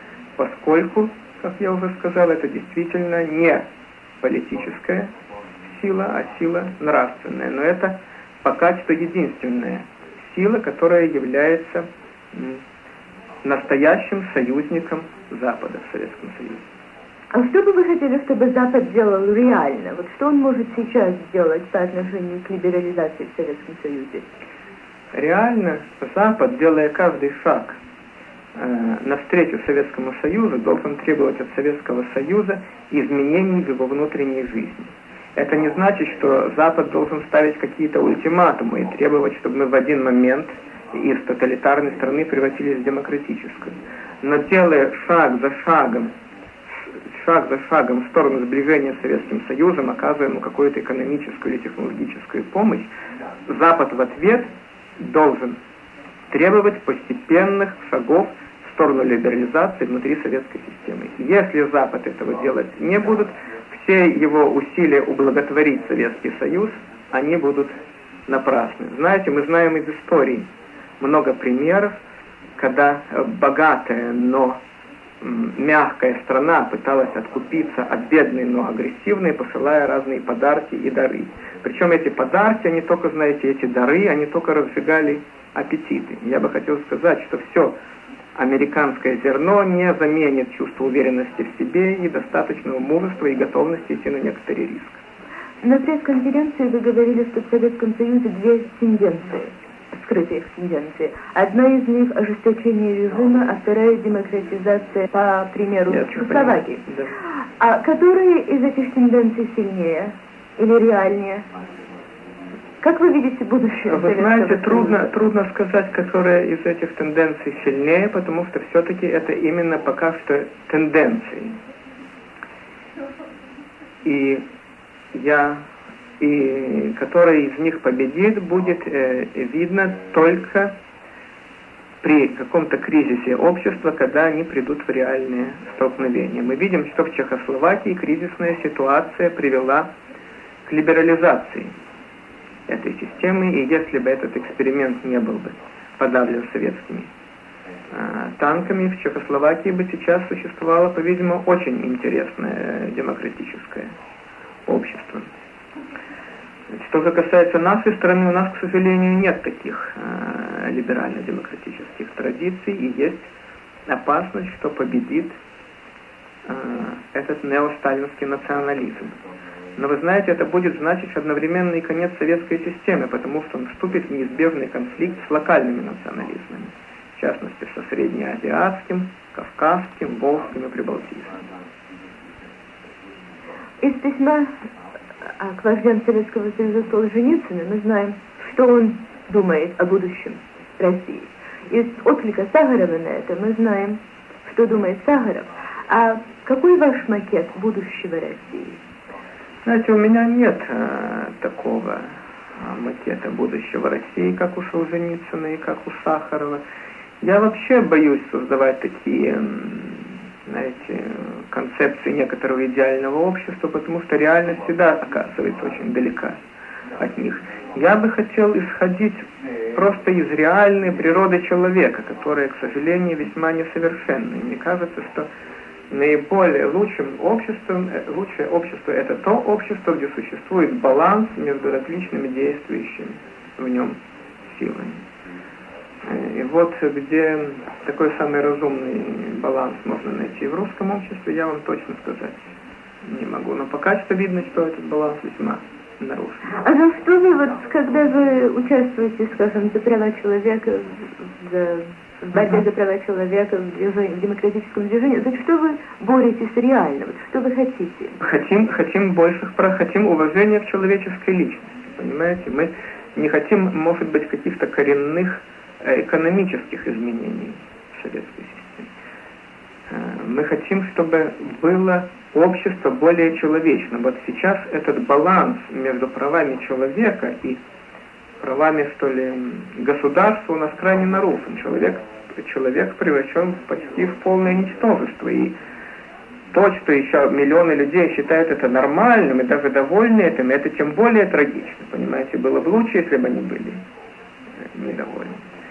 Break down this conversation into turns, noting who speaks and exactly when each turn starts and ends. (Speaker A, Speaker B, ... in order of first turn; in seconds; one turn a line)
Speaker A: 0.4-3.6
Speaker A: 4.2-5.1
Speaker A: 5.7-12.6
Speaker A: 13.4-16.6
Speaker B: 17.3-24.3
Speaker A: 25.1-27.8
Speaker A: 28.5-46.1
Speaker A: 46.9-52.9
Speaker A: 53.5-55.6
Speaker A: 56.3-67.7
Speaker A: 68.3-70.5
Speaker A: 71.0-72.0
Speaker A: 72.6-74.6
Speaker A: 75.2-87.7
Speaker A: 88.3-95.0
Speaker B: 95.6-106.8
Speaker A: 105.9-107.1
Speaker B: 107.6-111.4
Speaker B: 112.8-115.1
Speaker A: 113.9-121.6
Speaker A: 124.0-124.4
Speaker A: 125.1-125.6
Speaker A: 126.2-130.7
Speaker A: 132.0-139.9
Speaker A: 140.7-141.7
Speaker A: 142.7-147.1
Speaker A: 147.9-153.9
Speaker A: 154.7-155.3
Speaker A: 156.7-163.3
Speaker A: 163.9-165.3
Speaker A: 166.4-169.2
Speaker A: 169.8-181.4
Speaker B: 183.8-184.5
Speaker B: 185.4-198.8
Speaker A: 199.6-206.6
Speaker A: 207.2-216.4
Speaker A: 217.0-225.3
Speaker A: 225.9-235.0
Speaker A: 236.0-246.5
Speaker B: 246.6-258.2
Speaker A: 252.3-252.6
Speaker A: 258.2-268.9
Speaker A: 269.9-277.6
Speaker A: 278.4-285.5
Speaker A: 286.5-293.8
Speaker A: 294.7-295.4